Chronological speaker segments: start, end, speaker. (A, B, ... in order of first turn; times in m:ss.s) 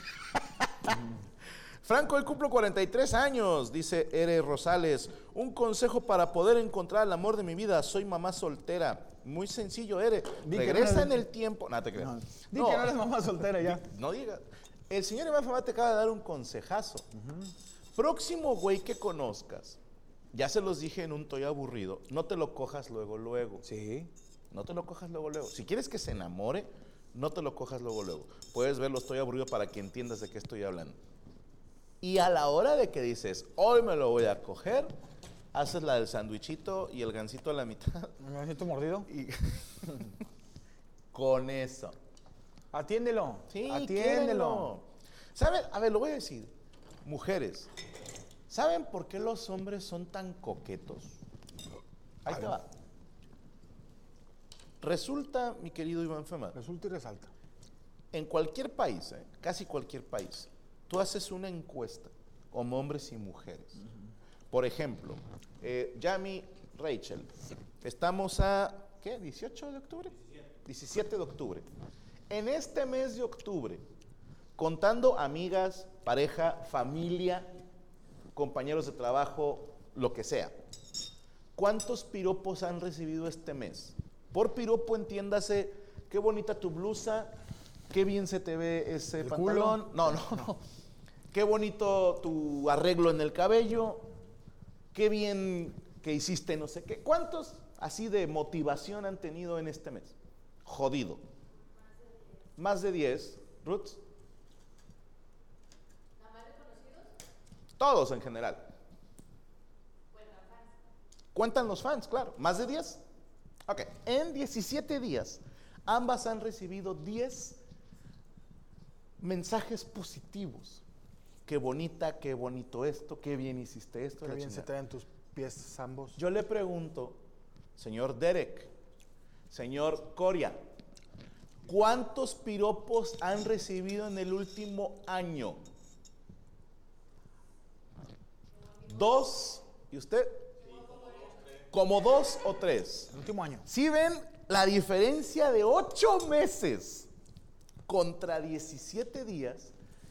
0:00.3-0:01.0 A
0:01.8-0:17.1 A
0:10.4-0:11.2 B
0:12.0-0:13.9 B
0:17.2-0:17.5 B
0:18.0-0:19.8 A
0:20.3-0:23.6 A
0:23.6-0:24.1 B
0:24.5-0:31.0 A
0:32.0-0:34.9 A
0:35.5-0:38.2 A
0:38.2-0:39.1 B
0:39.1-0:39.7 A
0:41.1-0:42.0 A
0:42.7-0:44.7 B
0:43.5-0:46.5 A
0:47.0-0:47.7 A
0:48.5-0:51.2 A
0:52.2-0:52.7 A
0:52.3-0:52.6 B
0:54.8-0:56.6 A
0:56.5-0:57.3 B
0:58.1-1:03.8 A
1:04.5-1:07.3 A
1:07.8-1:11.7 A
1:12.3-1:13.8 A
1:14.6-1:17.6 A
1:18.4-1:20.6 A
1:21.6-1:27.3 A
1:27.9-1:30.6 A
1:29.2-1:30.4 B
1:31.3-1:34.1 A
1:34.9-1:41.3 A
1:42.6-1:44.0 A
1:47.8-1:48.7 A
1:51.4-1:53.0 A
1:53.7-1:57.6 A
1:59.2-2:00.8 A
2:01.5-2:04.7 A
2:04.2-2:06.2 B
2:06.2-2:07.2 A
2:07.8-2:08.7 A
2:09.5-2:10.6 A
2:11.6-2:15.6 A
2:18.8-2:23.1 A
2:23.1-2:23.7 B
2:23.7-2:27.1 A
2:27.9-2:29.7 A